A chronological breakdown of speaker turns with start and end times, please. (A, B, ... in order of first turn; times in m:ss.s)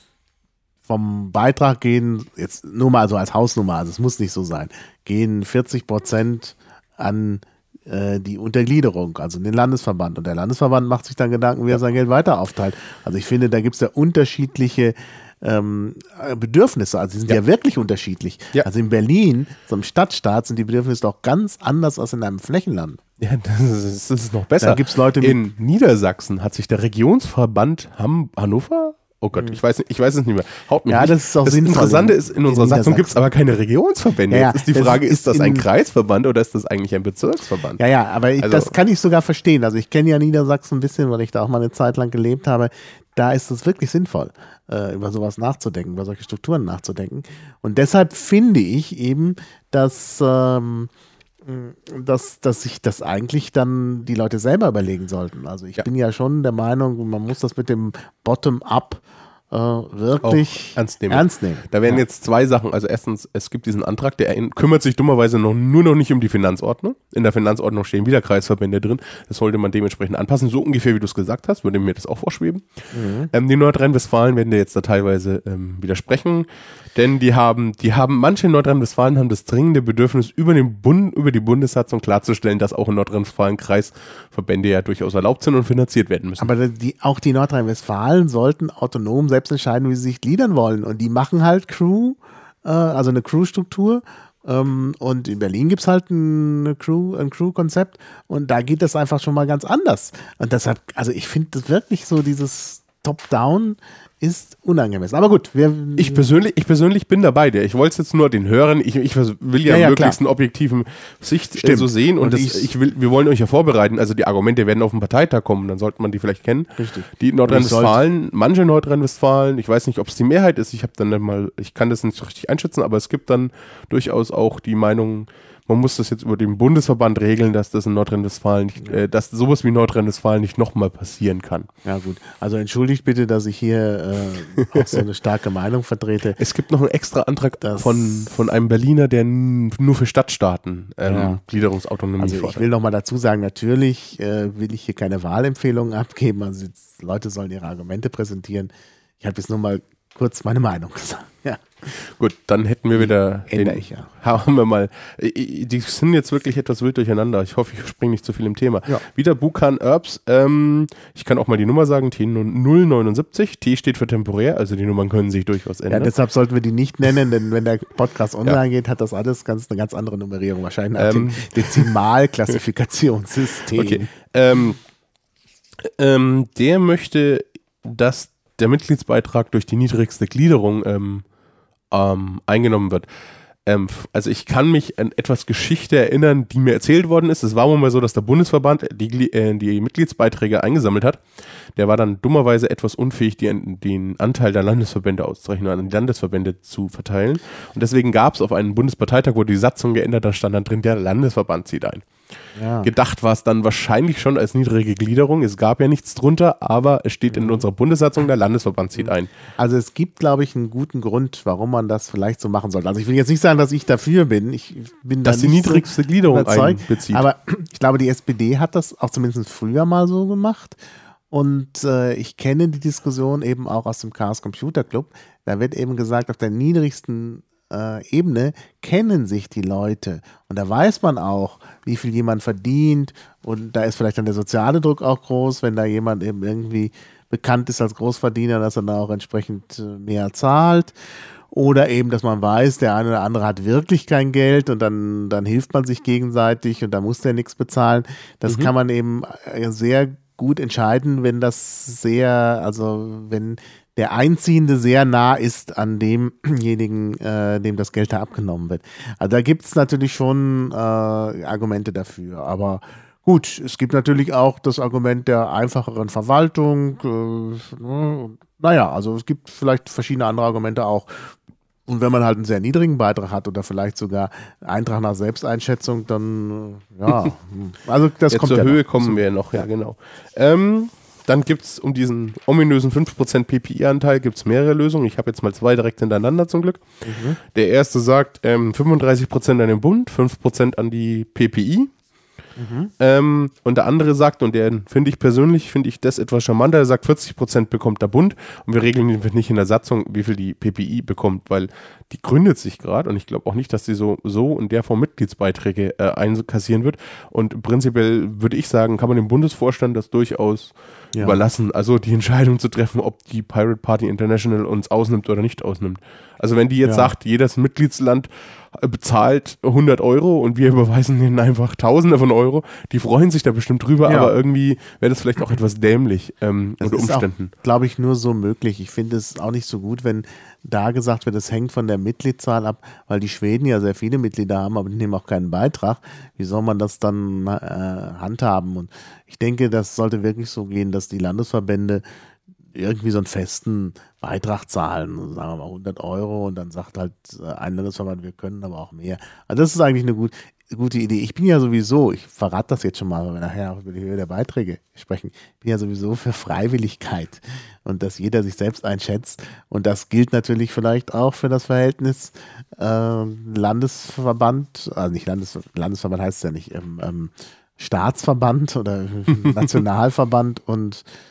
0:00.8-0:23.0 A
0:23.2-0:37.8 B
0:24.6-0:25.4 A
0:30.9-0:33.1 A
0:34.3-0:35.7 A
0:37.8-0:50.9 A
0:38.4-0:38.7 B
0:51.4-1:02.0 A
1:00.2-1:12.7 B
1:12.9-1:13.3 A
1:13.3-1:26.5 B
1:26.4-1:46.3 A
1:46.0-2:11.7 B
1:49.6-1:50.2 A
1:51.6-1:52.7 A
1:56.8-1:58.0 A
2:11.8-2:16.4 A
2:16.4-2:22.6 B
2:17.6-2:18.4 A
2:21.0-2:21.4 A
2:22.2-2:31.9 A
2:31.9-2:46.1 B
2:32.9-2:34.1 A
2:45.9-2:54.1 A
2:51.0-2:51.9 B
2:53.7-2:54.8 B
2:55.8-3:01.2 B
3:01.9-3:03.1 B
3:03.6-3:11.2 B
3:11.7-3:22.1 B
3:22.6-3:22.9 A
3:22.8-3:29.3 B
3:27.3-3:27.6 A
3:29.0-3:40.8 A
3:35.2-3:37.2 B
3:41.3-4:00.9 A
4:01.5-4:39.2 A
4:38.3-4:46.8 B
4:47.0-4:47.4 A
4:47.4-4:51.9 B
4:52.6-4:52.9 A
4:53.0-5:27.5 B
5:11.1-5:11.4 A
5:16.8-5:17.1 A
5:24.0-5:24.3 A
5:26.8-5:42.0 A
5:42.7-6:11.0 A